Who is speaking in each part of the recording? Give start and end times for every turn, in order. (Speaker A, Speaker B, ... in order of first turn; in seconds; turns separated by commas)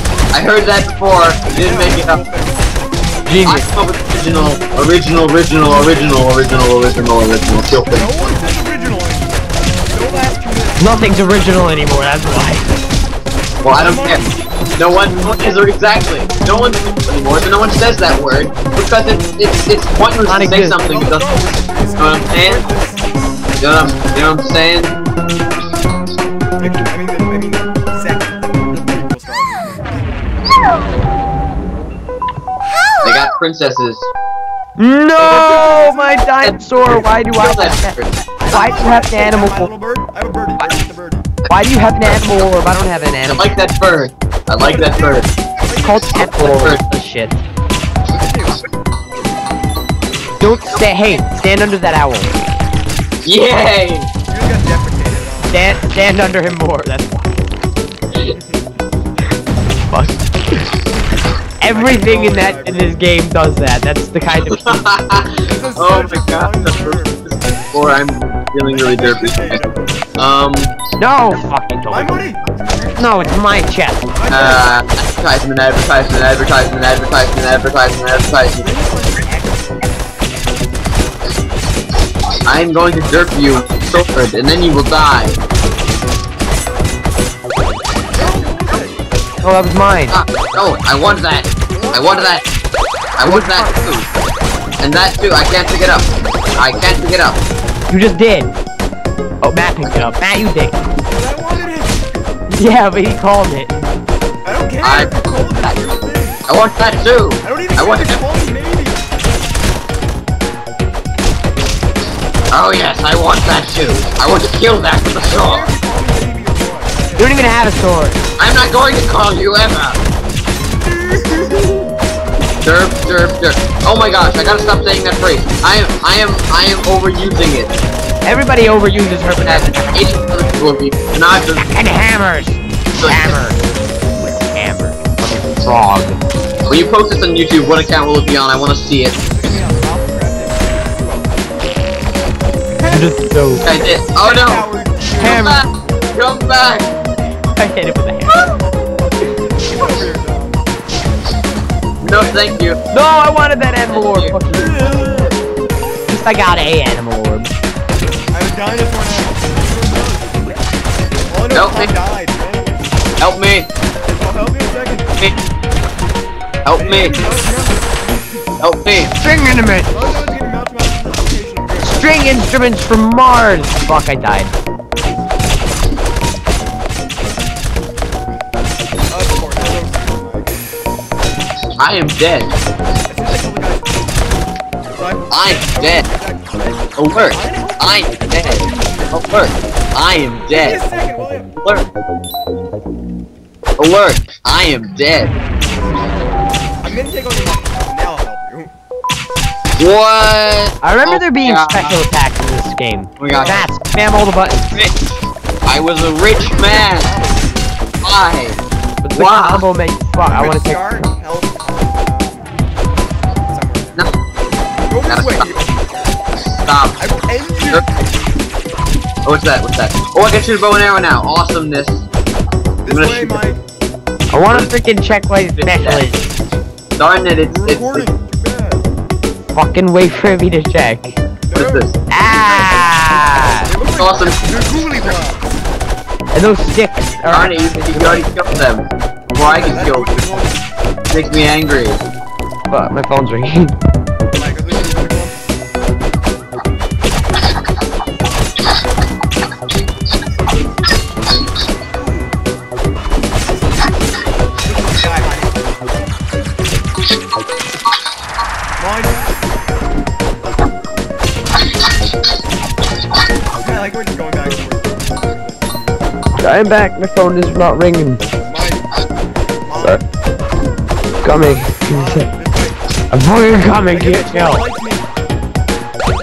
Speaker A: 0.3-2.2, Speaker B: 1.5-2.8, Speaker C: 3.2-3.7, Speaker A: 3.4-8.0, Speaker B: 5.7-6.2, Speaker B: 7.8-12.7, Speaker C: 10.8-12.7, Speaker A: 13.6-14.2, Speaker B: 13.7-14.3, Speaker A: 14.8-21.3, Speaker C: 20.2-20.8, Speaker B: 20.8-23.2, Speaker A: 22.0-22.6, Speaker A: 23.6-25.0, Speaker B: 26.6-30.1, Speaker A: 33.0-34.1, Speaker C: 34.8-39.7, Speaker B: 35.2-36.3, Speaker A: 36.4-38.2, Speaker B: 38.4-41.4, Speaker C: 41.5-43.5, Speaker A: 43.3-45.3, Speaker B: 44.6-46.4, Speaker C: 45.8-47.4, Speaker A: 46.2-46.8, Speaker B: 48.1-48.7, Speaker C: 50.4-52.4, Speaker A: 50.7-51.2, Speaker A: 53.2-54.1, Speaker B: 54.3-56.0, Speaker C: 55.5-57.3, Speaker B: 58.2-58.6, Speaker C: 59.9-60.2, Speaker C: 61.6-64.8, Speaker B: 61.6-63.0, Speaker A: 64.5-69.6, Speaker B: 65.4-67.7, Speaker B: 68.7-70.1, Speaker A: 70.2-70.8, Speaker C: 71.0-72.2, Speaker B: 71.9-73.0, Speaker C: 73.0-74.1, Speaker B: 74.1-74.7, Speaker A: 74.3-78.7, Speaker B: 78.6-80.2, Speaker A: 82.5-85.4, Speaker B: 88.1-89.0, Speaker C: 89.4-90.2, Speaker A: 90.1-92.4, Speaker B: 91.7-92.5, Speaker A: 93.2-94.1, Speaker C: 93.2-94.0, Speaker A: 94.8-97.4, Speaker C: 97.9-98.5, Speaker C: 99.4-100.8, Speaker B: 101.1-102.3, Speaker C: 102.5-103.9, Speaker B: 104.4-106.4, Speaker A: 104.8-105.1, Speaker A: 106.5-108.2, Speaker B: 107.4-109.1, Speaker A: 112.5-115.7, Speaker B: 115.2-117.5, Speaker C: 117.2-118.2, Speaker A: 118.4-120.0, Speaker B: 120.7-121.9, Speaker A: 122.6-127.7, Speaker C: 128.2-130.1, Speaker A: 129.4-131.7, Speaker C: 131.6-133.6, Speaker A: 132.9-133.4, Speaker C: 134.3-136.2, Speaker A: 136.7-139.2, Speaker B: 139.2-141.7, Speaker B: 142.8-143.2, Speaker C: 142.8-143.6, Speaker A: 143.6-144.7, Speaker B: 144.2-145.5, Speaker C: 145.2-145.7, Speaker A: 145.2-146.9, Speaker C: 147.5-148.3, Speaker B: 149.4-150.6, Speaker A: 152.0-152.8, Speaker B: 152.1-152.4, Speaker C: 152.9-155.1, Speaker A: 153.9-154.3, Speaker B: 154.5-156.3, Speaker C: 156.1-157.5, Speaker B: 158.3-160.6, Speaker B: 161.3-163.1, Speaker A: 161.5-161.9, Speaker A: 163.2-163.7, Speaker B: 164.0-165.4, Speaker A: 166.7-167.2, Speaker B: 166.8-168.5, Speaker A: 168.6-169.1, Speaker C: 169.2-170.1, Speaker B: 169.9-172.3, Speaker C: 171.8-174.5, Speaker B: 179.1-180.6, Speaker A: 181.8-182.5, Speaker B: 183.1-189.2, Speaker A: 185.3-186.1, Speaker A: 187.0-190.8, Speaker B: 190.5-191.5, Speaker A: 191.6-191.9, Speaker A: 193.8-195.3, Speaker B: 196.8-198.7, Speaker A: 199.8-202.0, Speaker C: 200.8-204.8, Speaker A: 203.2-203.6, Speaker B: 203.2-203.7, Speaker A: 204.7-207.1, Speaker B: 206.3-207.8, Speaker A: 208.0-208.6, Speaker C: 209.0-211.1, Speaker A: 209.2-209.7, Speaker B: 210.2-212.5, Speaker B: 213.5-214.0, Speaker B: 214.9-216.3, Speaker A: 215.1-215.5, Speaker A: 216.4-217.0, Speaker B: 217.0-218.1, Speaker A: 219.2-222.1, Speaker B: 222.8-223.6, Speaker A: 222.9-223.4, Speaker C: 224.3-226.3, Speaker A: 224.5-224.7, Speaker A: 225.6-226.0, Speaker A: 227.0-228.1, Speaker B: 227.5-228.9, Speaker C: 229.5-231.1, Speaker B: 231.5-233.1, Speaker A: 231.5-232.0, Speaker C: 232.1-233.7, Speaker B: 233.6-235.6, Speaker A: 234.0-234.4, Speaker C: 236.3-238.2, Speaker A: 237.3-240.2, Speaker B: 239.4-240.7, Speaker A: 241.1-242.0, Speaker C: 242.7-243.7, Speaker B: 244.3-245.5, Speaker B: 251.9-252.4, Speaker B: 253.5-254.0, Speaker B: 254.6-256.1, Speaker B: 258.8-259.4, Speaker B: 263.5-266.2, Speaker C: 266.4-268.2, Speaker B: 268.4-269.0, Speaker B: 269.6-270.0, Speaker C: 269.8-270.0, Speaker C: 271.2-272.2, Speaker B: 271.3-272.8, Speaker C: 273.1-274.6, Speaker B: 273.9-275.1